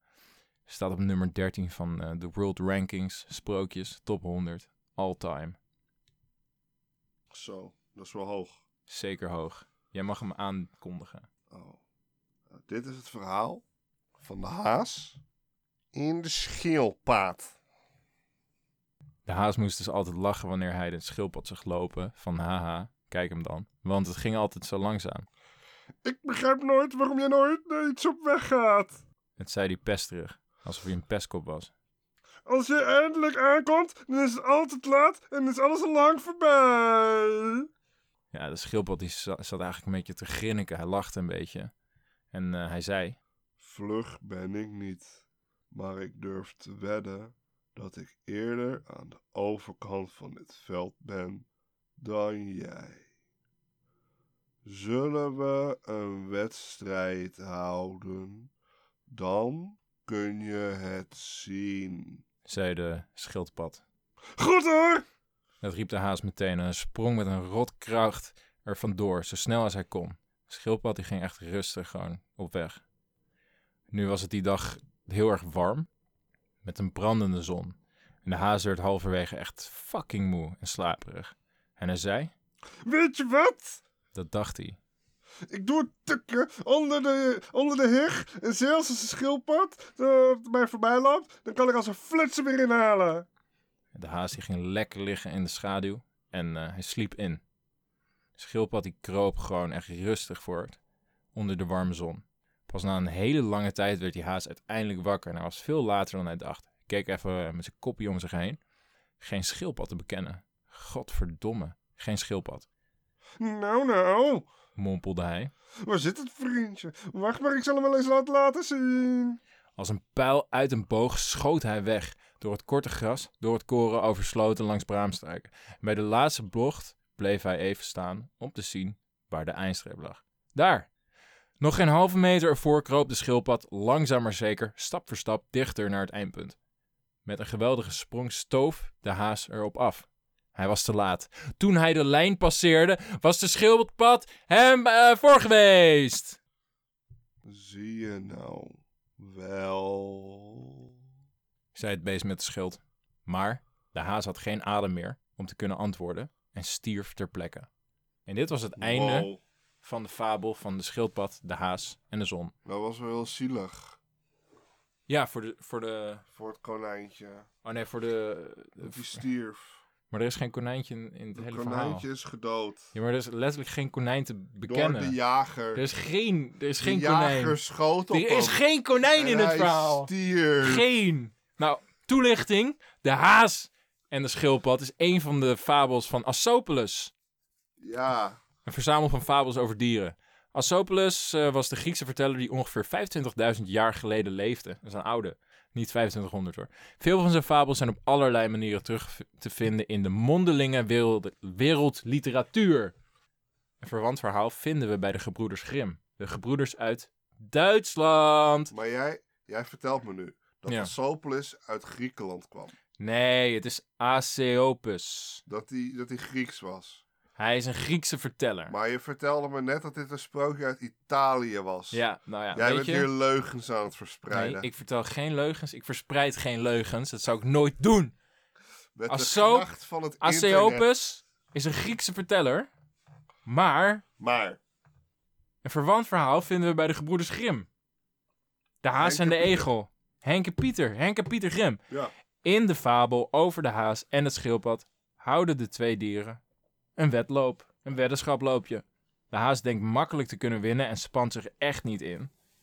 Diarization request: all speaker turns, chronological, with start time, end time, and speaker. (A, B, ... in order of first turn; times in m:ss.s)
0:00.7-0:05.6 A
0:07.3-0:08.6 B
0:08.9-0:11.3 A
0:11.5-0:11.8 B
0:12.5-0:13.6 B
0:14.2-0:15.2 B
0:15.9-0:17.6 B
0:19.3-0:25.3 A
0:26.0-0:29.0 B
0:29.4-0:31.7 A
0:32.5-0:37.6 B
0:38.3-0:41.7 A
0:42.3-0:43.2 A
0:43.6-0:51.5 B
0:52.0-0:53.0 B
0:54.6-0:58.5 B
0:59.1-1:02.2 B
1:02.5-1:03.8 A
1:04.4-1:05.0 B
1:05.6-1:12.8 A
1:13.9-1:15.9 A
1:16.6-1:22.3 A
1:22.8-1:23.8 B
1:24.1-1:24.8 A
1:25.5-1:33.3 B
1:33.9-1:37.4 A
1:38.4-1:40.8 A
1:41.3-1:48.6 A
1:49.2-1:52.7 A
1:53.4-1:54.5 B
1:54.8-1:55.5 A
1:55.8-1:59.4 B
1:59.8-2:10.9 A
2:11.6-2:16.6 A
2:17.2-2:26.4 A
2:27.5-2:30.8 B
2:31.7-2:37.7 A
2:38.3-2:39.3 A
2:38.8-2:39.4 B
2:39.8-2:42.5 A
2:42.6-2:44.0 B
2:45.1-2:46.2 A
2:46.3-2:47.5 B
2:47.6-2:49.2 A
2:48.8-2:49.8 B
2:50.1-2:52.1 A
2:51.4-2:52.9 B
2:52.9-2:55.2 A
2:54.6-2:55.8 B
2:55.7-2:57.6 A
2:56.8-2:58.6 B
2:58.1-3:00.1 A
2:59.1-3:00.9 B
3:00.6-3:07.1 A
3:07.8-3:08.4 B
3:08.6-3:22.9 A
3:23.8-3:28.7 A
3:28.7-3:32.8 B
3:33.0-3:35.4 A
3:35.5-3:37.0 B
3:37.4-3:38.7 A
3:38.7-3:44.7 B
3:41.9-3:43.1 A
3:44.3-3:48.1 A
3:49.0-3:50.9 B
3:49.1-3:49.7 A
3:50.2-3:52.7 A
3:53.5-3:54.0 A
3:54.2-3:54.6 B
3:55.6-3:57.7 A
3:58.8-4:01.8 A
3:59.0-3:59.7 B
4:02.4-4:06.4 A
4:07.0-4:12.3 A